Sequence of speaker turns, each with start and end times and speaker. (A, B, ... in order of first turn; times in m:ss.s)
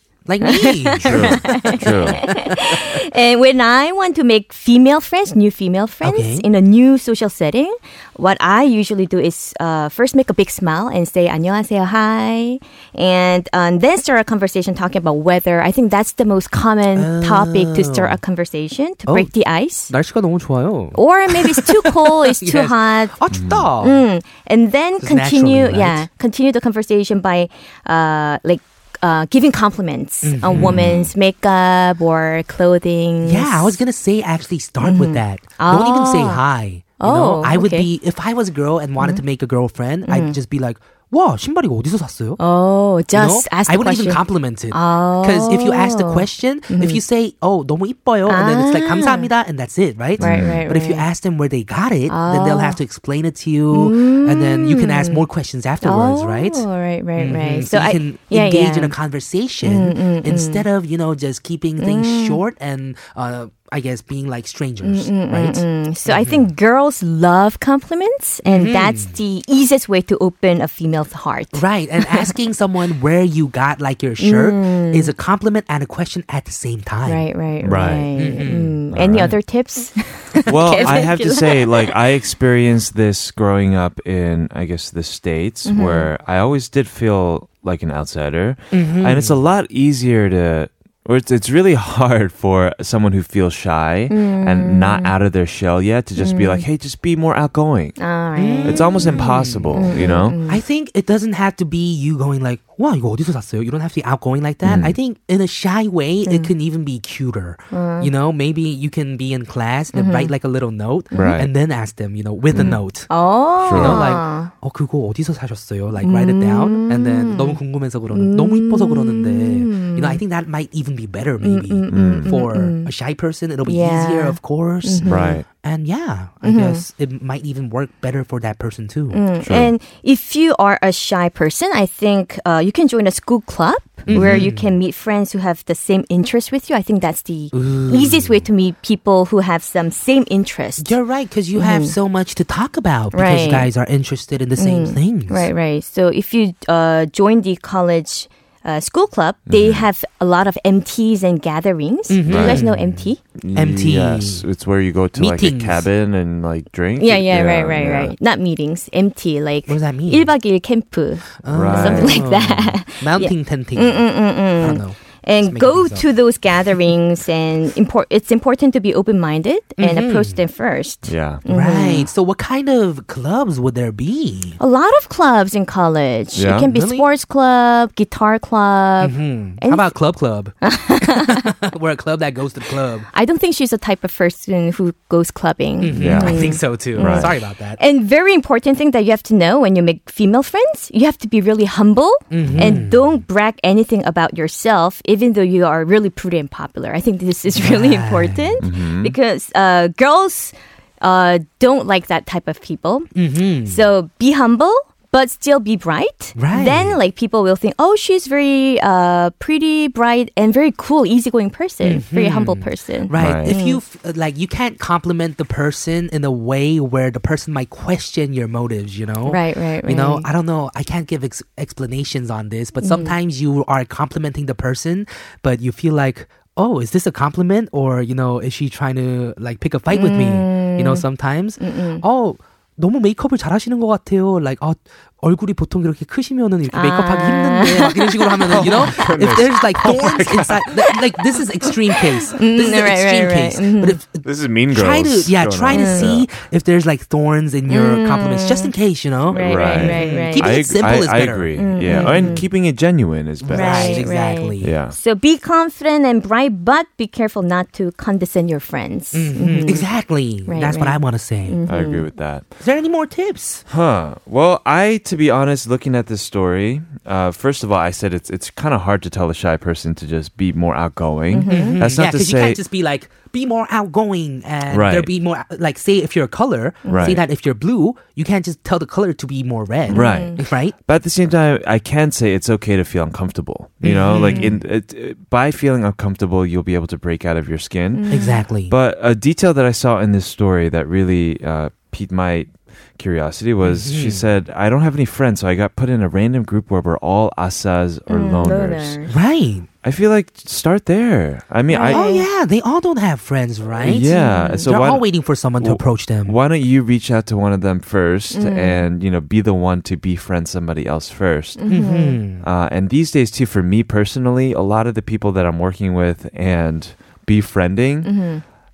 0:00.2-0:02.9 A
0:00.4-0:19.9 B
0:01.0-0:02.2 C
0:06.0-0:06.5 A
0:16.9-0:18.2 A
0:19.1-0:19.3 A
0:19.9-0:24.0 A
0:20.9-0:23.2 B
0:23.3-0:23.7 C
0:23.8-0:33.8 B
0:25.0-0:26.1 A
0:30.2-0:30.9 A
0:30.5-0:31.1 C
0:33.2-0:42.4 A
0:34.8-0:36.4 B
0:37.0-0:37.9 B
0:40.0-0:40.4 B
0:42.4-0:47.0 B
0:43.1-0:56.6 A
0:48.3-0:49.3 B
0:50.2-0:50.6 C
0:50.2-0:51.1 B
0:52.1-0:52.8 B
0:53.7-0:55.2 B
0:55.8-0:58.9 B
0:57.2-1:06.5 A
0:59.6-1:00.6 B
1:01.8-1:02.4 B
1:04.8-1:12.3 B
1:08.4-1:09.1 A
1:11.5-1:17.2 A
1:14.2-1:15.1 B
1:17.0-1:21.9 B
1:17.6-1:18.1 C
1:18.2-1:18.8 A
1:18.9-1:19.3 C
1:20.4-1:38.0 C
1:20.8-1:21.1 A
1:25.6-1:26.1 B
1:28.7-1:29.4 A
1:34.1-1:35.1 B
1:36.2-1:36.6 B
1:38.0-1:39.1 B
1:38.4-1:53.1 A
1:38.6-1:40.4 C
1:39.7-1:40.6 B
1:44.6-1:44.9 C
1:46.2-1:46.5 B
1:47.7-1:48.1 B
1:49.9-1:50.3 B
1:51.1-1:51.4 B
1:51.1-1:51.5 C
1:52.5-1:52.8 C
1:52.6-1:54.5 B
1:53.6-1:54.1 C
1:53.7-2:09.2 A
1:56.0-1:57.6 B
1:58.1-2:00.2 B
2:01.4-2:02.9 B
2:01.9-2:02.3 C
2:03.6-2:05.4 B
2:05.0-2:05.4 C
2:06.4-2:06.8 B
2:09.1-2:20.9 B
2:09.4-2:09.7 C
2:14.1-2:14.7 A
2:14.1-2:14.5 C
2:17.5-2:18.4 A
2:20.8-2:25.5 A
2:21.5-2:21.9 B
2:23.1-2:23.7 B
2:24.6-2:33.2 B
2:29.5-2:29.9 C
2:32.1-2:34.4 A
2:32.3-2:32.6 C
2:33.4-2:38.1 C
2:35.2-2:35.8 A
2:37.0-2:52.1 B
2:39.7-2:40.3 A
2:41.4-2:46.0 A
2:41.5-2:42.2 C
2:49.8-2:50.4 A
2:51.1-2:51.4 C
2:51.4-2:54.6 A
2:54.6-2:59.9 B
2:56.3-2:56.7 C
2:56.6-2:57.0 A
2:59.0-3:03.1 A
3:00.6-3:01.5 B
3:03.1-3:23.1 B
3:05.8-3:07.8 A
3:06.0-3:07.3 C
3:12.3-3:13.1 A
3:12.4-3:12.7 C
3:17.5-3:18.6 A
3:18.6-3:19.1 C
3:23.1-3:23.8 A
3:23.6-3:33.8 B
3:26.4-3:27.0 A
3:31.8-4:12.4 A
3:33.2-3:33.5 C
3:39.2-3:40.3 B
3:42.8-3:43.1 B
3:49.9-3:51.0 B
3:51.6-3:52.0 B
3:56.7-3:58.7 B
3:58.5-4:00.7 C
4:02.3-4:04.0 B
4:04.2-4:06.3 C
4:05.7-4:06.1 B
4:07.7-4:08.7 B
4:09.3-4:10.6 B
4:09.4-4:14.0 C
4:11.6-4:12.4 B
4:13.4-4:14.7 A
4:13.5-4:19.9 B
4:14.6-4:15.0 C
4:19.1-4:21.6 A
4:20.4-4:22.0 B
4:21.7-4:22.5 C
4:22.6-4:23.6 A
4:23.7-4:32.6 C
4:31.3-4:31.8 B
4:31.5-4:40.7 A
4:34.7-4:35.1 C
4:36.8-4:37.2 B
4:36.9-4:37.2 C
4:39.9-4:40.4 B
4:39.9-4:59.0 C
4:43.8-4:44.6 A
4:44.3-4:44.6 B
4:47.9-4:48.4 B
4:48.1-4:48.7 A
4:53.6-4:54.3 A
4:58.1-4:59.2 B
4:59.1-4:59.7 A
4:59.8-5:02.0 C
5:01.7-5:02.3 B
5:01.9-5:06.4 A
5:03.8-5:05.0 C
5:04.1-5:04.6 B
5:05.6-5:11.6 C
5:08.3-5:08.8 B
5:11.6-5:12.2 B
5:11.7-5:12.4 A
5:12.4-5:18.1 C
5:18.0-5:18.4 B